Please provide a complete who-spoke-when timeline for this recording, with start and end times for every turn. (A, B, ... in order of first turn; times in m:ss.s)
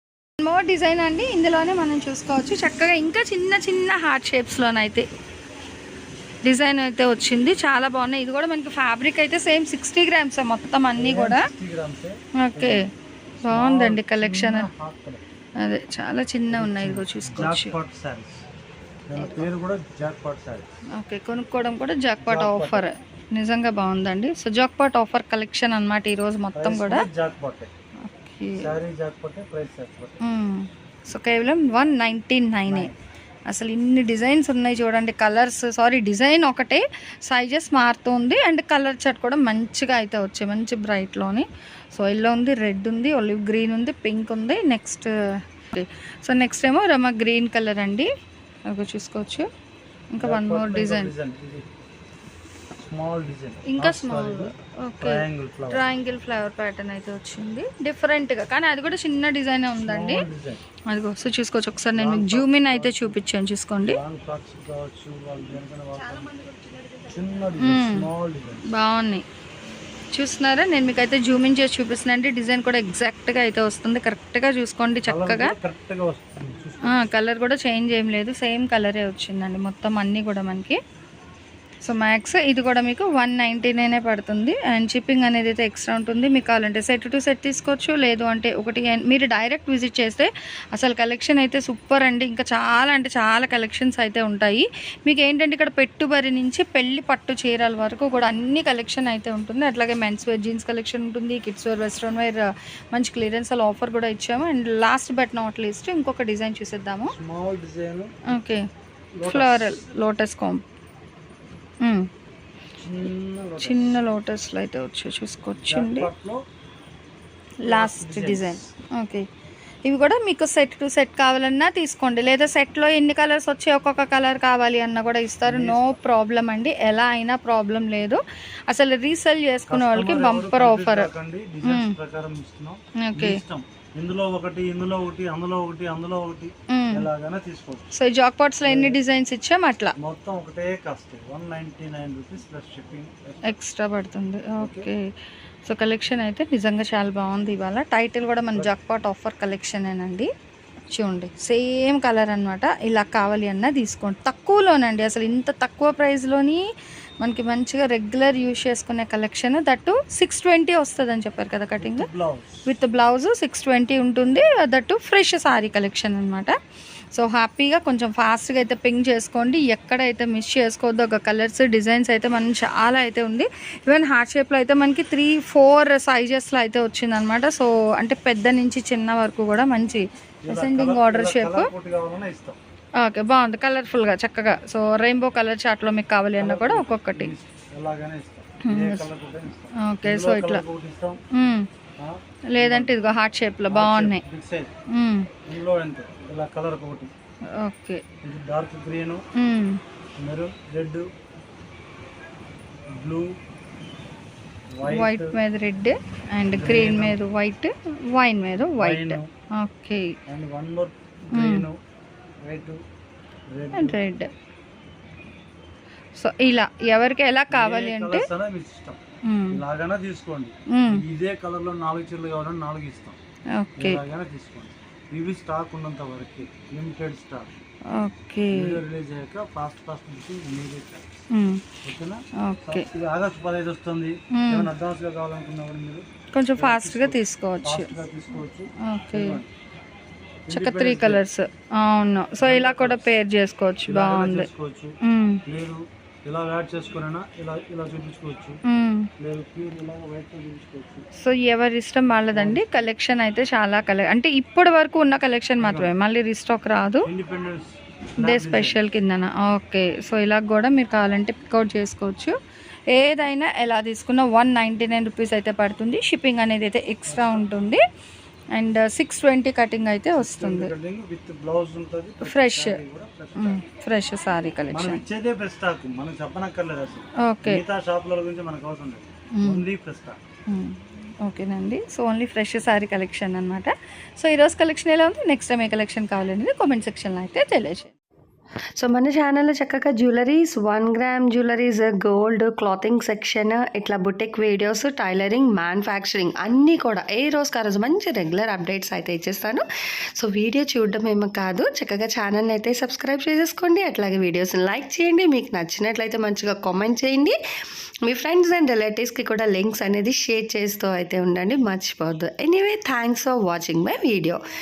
0:00.4-0:05.1 A
0:06.4-0:11.5 A
0:11.0-0:12.8 B
0:12.4-0:12.8 A
0:13.4-0:15.2 B
0:13.5-0:14.7 A
0:15.6-0:17.8 A
0:16.5-0:18.4 B
0:19.1-0:20.7 B
0:19.2-0:19.4 A
0:21.0-0:27.1 A
0:22.2-0:22.9 B
0:26.5-0:27.7 B
0:28.1-0:28.8 A
0:28.6-0:30.2 B
0:30.2-0:32.9 A
0:32.7-0:33.0 B
0:33.5-0:45.1 A
0:45.7-0:48.1 A
0:48.7-0:49.5 A
0:50.1-0:51.1 A
0:50.2-0:51.7 B
0:52.8-0:55.8 B
0:53.7-1:00.3 A
0:59.8-1:00.6 B
1:00.9-1:04.0 A
1:02.0-1:03.2 B
1:03.8-1:06.4 B
1:07.0-1:08.7 B
1:07.6-1:08.1 A
1:08.7-1:09.2 A
1:10.1-1:15.6 A
1:15.0-1:17.0 B
1:16.9-1:20.8 A
1:21.8-1:47.2 A
1:47.0-1:48.3 B
1:48.3-1:48.6 A
1:49.2-1:49.9 B
1:49.2-1:50.6 A
1:51.8-1:52.1 A
1:52.8-1:54.0 B
1:53.6-1:56.1 A
1:55.6-1:56.4 B
1:57.6-1:59.2 A
1:57.6-1:58.7 B
1:59.8-2:11.1 A
2:05.4-2:06.0 B
2:09.7-2:17.9 B
2:11.6-2:11.9 A
2:13.0-2:13.4 A
2:16.7-2:17.1 A
2:17.9-2:19.9 A
2:18.6-2:19.0 B
2:20.0-2:23.6 B
2:23.4-2:25.0 A
2:24.6-2:24.9 B
2:25.6-2:30.3 A
2:30.9-2:36.6 A
2:37.2-2:42.1 A
2:41.8-2:42.7 B
2:42.7-2:46.6 A
2:47.1-3:01.7 A
3:00.5-3:02.6 B
3:03.0-3:07.3 A
3:06.4-3:11.2 B
3:08.6-3:09.1 A
3:09.8-3:10.6 A
3:11.3-3:11.7 A
3:12.0-3:13.0 B
3:12.5-3:14.2 A
3:13.7-3:14.7 B
3:14.9-3:15.3 A
3:15.5-3:17.1 B
3:17.6-3:18.0 A
3:18.2-3:19.2 B
3:19.4-3:19.8 A
3:20.2-3:21.0 B
3:22.9-3:23.4 B
3:24.8-3:25.4 B
3:24.9-3:30.1 A
3:26.5-3:27.2 B
3:28.8-3:29.3 B
3:30.3-3:31.8 B
3:31.3-3:31.7 A
3:32.4-3:32.8 B
3:33.5-3:34.0 B
3:33.7-3:34.3 A
3:36.2-3:38.3 A
3:37.5-3:39.0 B
3:39.3-3:39.6 A
3:39.5-3:43.2 B
3:40.7-3:41.0 A
3:43.6-3:44.0 A
3:43.8-3:47.6 B
3:48.0-3:48.8 A
3:48.5-3:51.2 B
3:51.3-3:51.6 A
3:51.8-3:56.0 B
3:52.4-3:52.9 A
3:54.3-3:54.7 A
3:56.3-3:58.0 A
3:56.6-3:59.5 B
3:58.8-3:59.4 A
4:00.5-4:01.2 B
4:00.5-4:04.5 A
4:02.4-4:03.1 B
4:03.9-4:05.0 B
4:05.0-4:05.4 A
4:05.5-4:08.6 B
4:08.7-4:09.1 A
4:09.2-4:11.1 B
4:11.2-4:17.1 A
4:12.3-4:12.8 B
4:15.6-4:15.9 B
4:17.0-4:18.8 B
4:18.2-4:22.3 A
4:22.9-4:27.8 A
4:27.1-4:27.5 B
4:28.6-4:30.7 A
4:30.2-4:33.6 B
4:32.2-4:32.8 A
4:33.4-4:35.0 A
4:34.7-4:40.2 B
4:37.3-4:37.6 A
4:39.4-4:39.6 A
4:40.5-4:47.9 A
4:48.8-4:59.6 C
5:00.2-5:07.4 C
5:08.1-5:14.4 C